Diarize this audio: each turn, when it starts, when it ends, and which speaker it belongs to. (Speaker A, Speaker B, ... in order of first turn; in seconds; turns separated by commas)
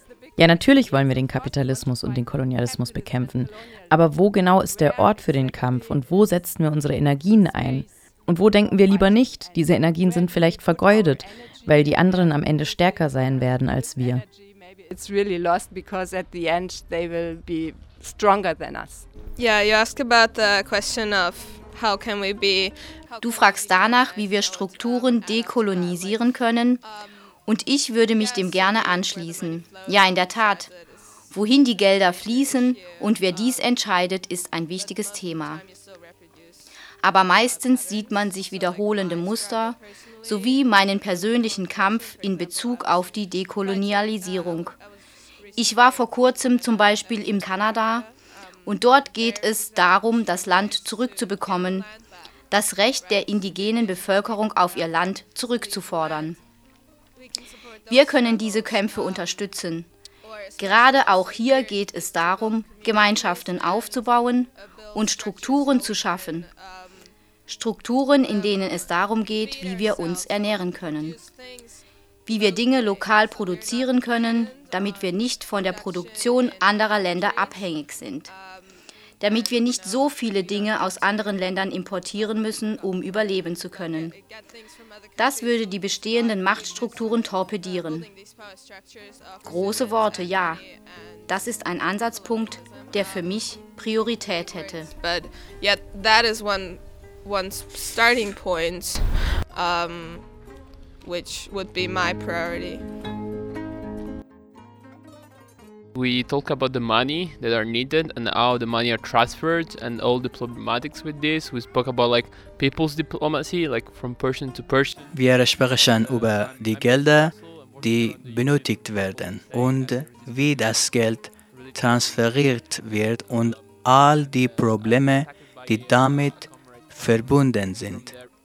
Speaker A: 0.4-14.2, Speaker B: 14.9-19.1, Speaker C: 19.4-22.8, Speaker D: 23.2-26.8, Speaker D: 27.5-30.7, Speaker D: 31.3-35.6, Speaker D: 37.0-44.8, Speaker D: 45.6-48.1, Speaker D: 48.7-51.9, Speaker D: 52.5-56.4, Speaker D: 57.9-59.9, Speaker D: 60.6-66.5, Speaker D: 67.5-71.2, Speaker D: 72.3-78.3, Speaker D: 79.2-84.2, Speaker D: 85.2-88.1, Speaker D: 89.4-90.6, Speaker D: 91.3-94.9, Speaker C: 95.0-100.4, Speaker C: 101.0-102.9, Speaker E: 106.0-115.1, Speaker F: 115.1-128.2